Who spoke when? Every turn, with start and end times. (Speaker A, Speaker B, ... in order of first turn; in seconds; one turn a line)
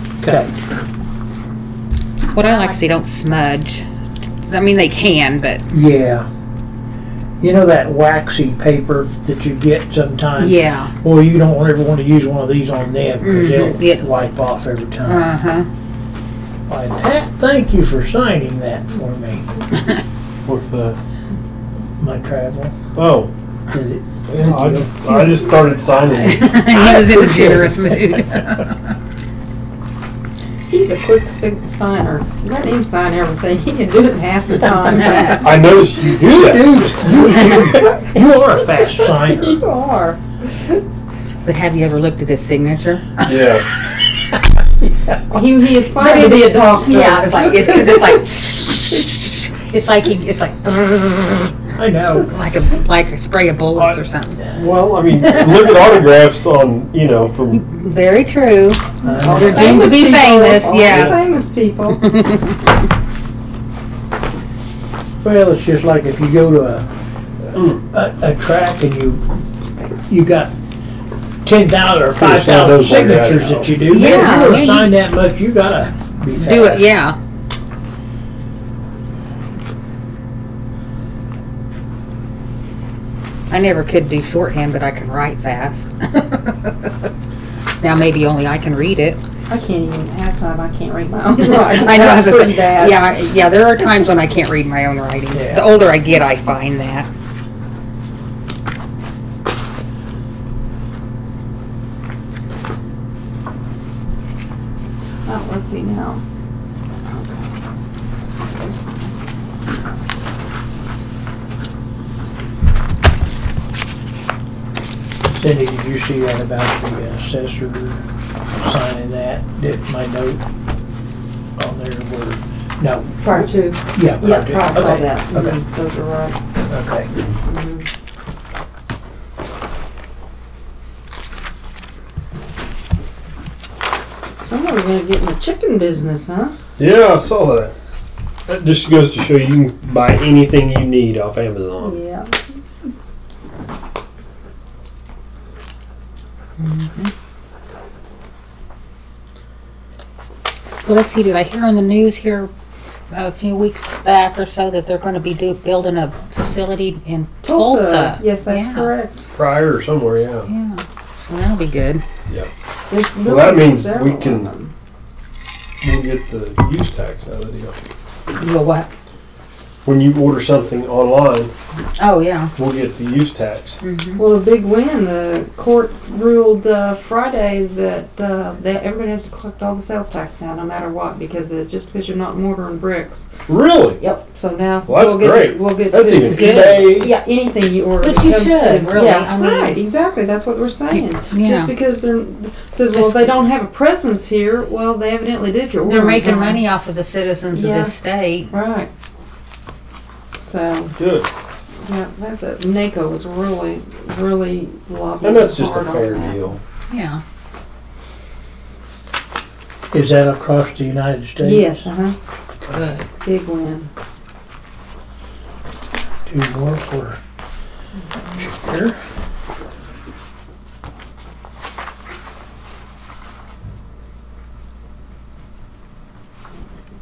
Speaker A: 0.2-0.6
Speaker B: 2.3-3.9
Speaker B: 4.4-5.7
Speaker A: 5.7-6.3
Speaker A: 7.4-15.3
Speaker B: 10.4-10.9
Speaker B: 13.2-14.1
Speaker B: 15.0-15.7
Speaker A: 16.7-19.5
Speaker C: 20.5-21.0
Speaker A: 22.0-22.7
Speaker C: 22.9-23.3
Speaker A: 23.7-25.5
Speaker C: 24.3-27.9
Speaker B: 26.1-28.9
Speaker D: 30.7-35.5
Speaker B: 35.0-35.4
Speaker C: 35.2-36.8
Speaker A: 36.2-39.6
Speaker B: 37.1-37.8
Speaker D: 37.6-40.2
Speaker B: 41.4-43.3
Speaker C: 43.2-43.6
Speaker D: 45.3-48.2
Speaker B: 45.9-51.5
Speaker A: 51.8-52.3
Speaker B: 52.2-54.5
Speaker C: 53.8-57.6
Speaker B: 55.2-56.0
Speaker B: 57.5-61.2
Speaker A: 59.0-60.0
Speaker D: 59.1-62.1
Speaker A: 60.8-61.1
Speaker B: 62.0-62.6
Speaker A: 65.2-66.9
Speaker A: 67.5-69.2
Speaker C: 67.5-67.8
Speaker A: 70.1-70.5
Speaker A: 71.4-76.9
Speaker C: 72.2-73.7
Speaker B: 73.9-74.9
Speaker B: 76.3-77.2
Speaker B: 83.5-86.9
Speaker B: 87.8-89.2
Speaker D: 89.5-93.0
Speaker B: 91.4-97.1
Speaker A: 95.3-95.7
Speaker D: 105.3-106.2
Speaker D: 107.0-107.5
Speaker D: 108.4-110.2
Speaker A: 115.4-120.4
Speaker A: 121.6-125.6
Speaker D: 123.2-126.4
Speaker A: 126.7-127.1
Speaker D: 127.4-127.9
Speaker D: 134.4-136.5
Speaker C: 136.8-137.7
Speaker C: 138.5-142.0
Speaker D: 141.8-142.4
Speaker B: 146.6-147.1
Speaker B: 150.8-152.5
Speaker B: 153.1-158.9
Speaker D: 157.4-159.3
Speaker C: 159.3-160.5
Speaker B: 160.5-162.0
Speaker D: 162.9-164.7
Speaker C: 163.2-164.5
Speaker C: 165.8-167.8
Speaker B: 168.4-168.9
Speaker C: 169.8-171.5
Speaker B: 172.0-172.5
Speaker C: 172.6-173.8
Speaker B: 173.8-174.2
Speaker D: 174.2-183.3
Speaker C: 183.5-184.0
Speaker D: 184.0-196.6
Speaker C: 184.9-187.1
Speaker B: 186.3-187.2
Speaker B: 188.0-189.8
Speaker B: 190.9-191.7
Speaker B: 192.9-193.4
Speaker B: 195.8-198.5
Speaker D: 197.5-197.9
Speaker D: 198.5-198.9
Speaker D: 200.4-200.9
Speaker C: 201.0-201.3
Speaker D: 201.8-206.4
Speaker C: 205.2-206.6
Speaker B: 206.9-207.2
Speaker A: 209.9-211.9
Speaker D: 211.4-212.2
Speaker B: 212.7-213.1
Speaker D: 213.2-213.9
Speaker A: 216.3-217.2
Speaker A: 218.4-219.0